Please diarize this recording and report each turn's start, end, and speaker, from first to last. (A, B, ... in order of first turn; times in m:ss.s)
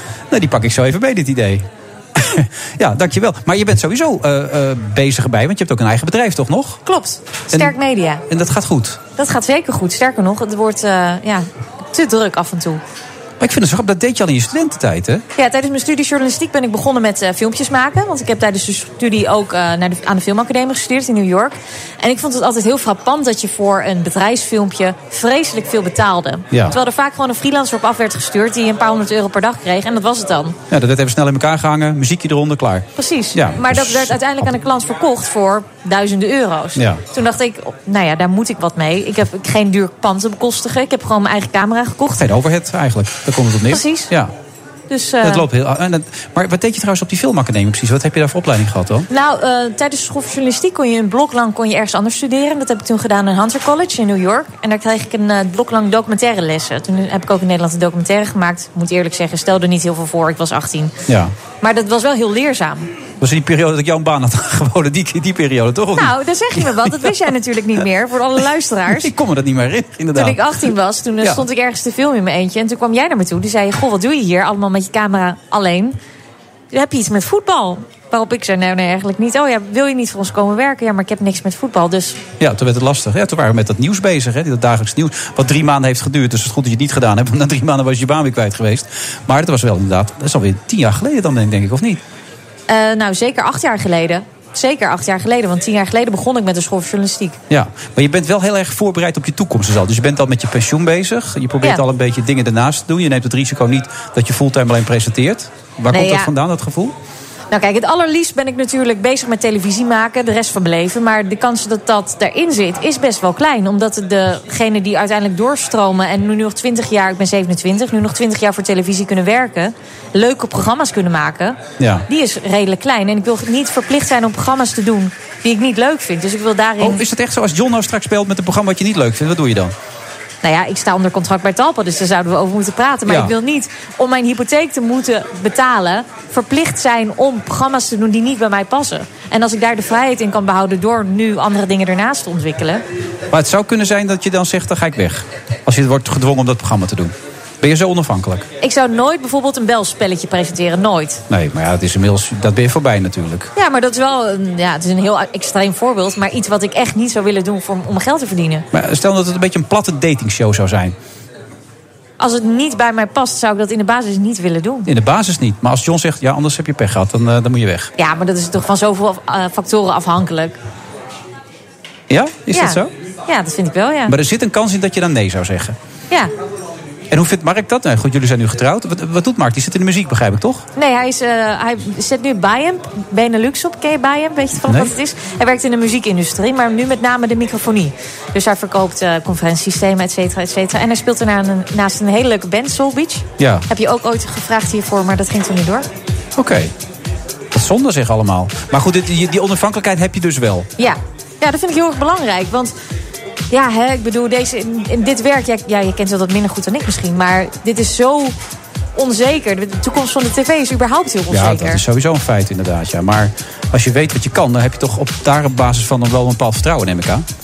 0:00.3-0:06.8 A
0:06.8-0:08.2 B
0:07.5-0:07.8 A
0:08.3-0:09.0 A
0:09.2-0:12.8 B
0:13.4-0:15.2 A
0:15.3-0:30.6 B
0:30.7-0:34.3 A
0:33.0-0:42.2 B
0:36.8-0:37.0 A
0:42.2-0:44.3 A
0:43.7-0:44.1 B
0:44.9-0:45.4 B
0:45.2-0:49.1 A
0:49.1-1:00.9 B
1:01.1-1:01.3 A
1:01.6-1:02.9 B
1:03.2-1:07.1 A
1:05.9-1:09.1 B
1:08.9-1:10.4 A
1:10.1-1:16.0 B
1:16.7-1:22.2 B
1:22.4-1:32.0 A
1:32.7-1:37.4 B
1:37.5-1:46.9 A
1:45.9-1:46.3 B
1:47.5-2:07.0 B
2:01.8-2:02.0 A
2:06.8-2:09.7 A
2:10.4-2:22.8 B
2:13.1-2:13.3 A
2:23.3-2:28.4 A
2:28.6-2:31.2 B
2:31.3-2:33.5 A
2:33.5-2:38.6 B
2:38.7-2:40.9 A
2:42.2-2:44.9 B
2:44.8-2:47.9 A
2:48.0-2:50.6 B
2:52.1-2:52.9 A
2:52.5-2:54.1 B
2:54.1-2:55.7 A
2:57.1-3:00.6 A
3:00.8-3:15.9 B
3:04.7-3:04.9 A
3:13.4-3:13.6 A
3:16.4-3:16.7 A
3:17.5-3:20.7 A
3:20.8-3:22.7 B
3:23.5-3:28.3 B
3:29.0-3:31.8 B
3:31.3-3:37.2 A